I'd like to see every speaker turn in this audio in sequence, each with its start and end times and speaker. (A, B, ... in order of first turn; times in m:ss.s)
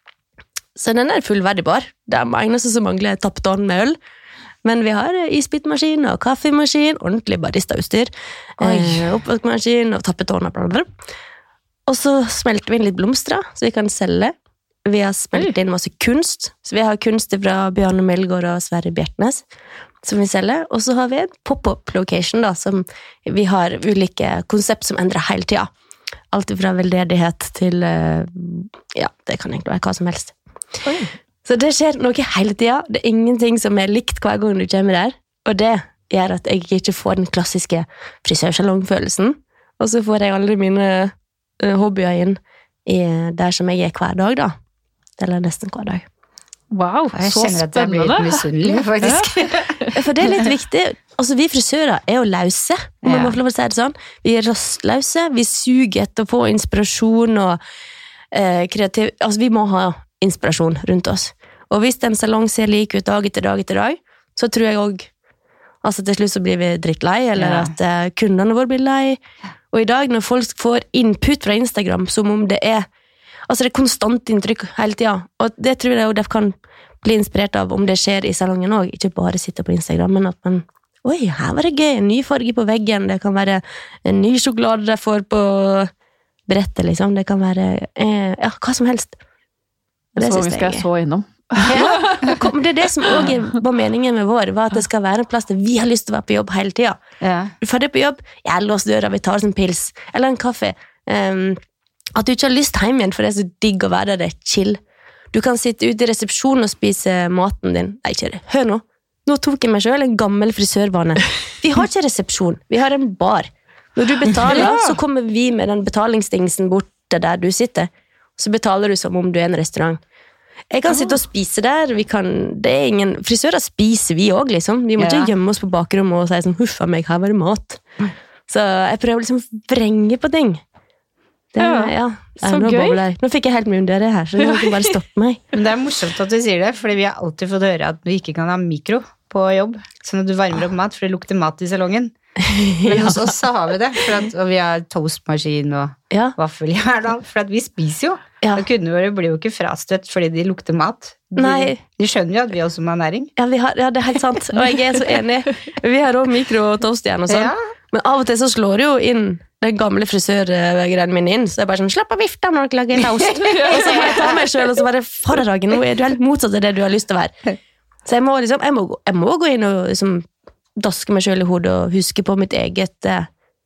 0:00.8-0:04.0 A
0:04.6-0:10.9 A
0:08.6-0:09.1 B
0:11.9-0:19.4 A
0:20.0-0:25.7 A
0:26.3-0:30.4 A
0:30.8-0:31.1 B
0:31.4-0:44.5 A
0:45.2-0:46.1 A
0:46.7-0:50.0 B
0:47.2-0:49.8 C
0:49.9-0:57.6 A
0:53.0-0:53.4 C
0:58.3-1:05.1 A
1:05.8-1:09.2 A
1:07.4-1:07.7 C
1:09.7-1:12.9 A
1:13.5-1:25.9 A
1:26.5-1:29.2 A
1:30.2-1:30.9 A
1:30.2-1:32.4 B
1:31.7-1:32.3 C
1:31.7-1:37.0 A
1:33.0-1:33.4 B
1:37.2-1:37.5 C
1:37.6-1:41.6 A
1:42.2-1:44.8 A
1:45.3-2:00.0 A
1:54.5-1:55.0 B
2:00.7-2:07.8 A
2:05.0-2:05.3 C
2:08.5-2:10.6 A
2:11.5-2:15.4 A
2:11.6-2:13.0 B
2:14.4-2:14.9 B
2:15.5-2:22.2 C
2:22.5-2:23.3 A
2:22.8-2:33.3 C
2:31.4-2:31.8 A
2:33.4-2:47.4 A
2:37.3-2:37.6 C
2:43.5-2:44.5 B
2:48.0-2:53.3 A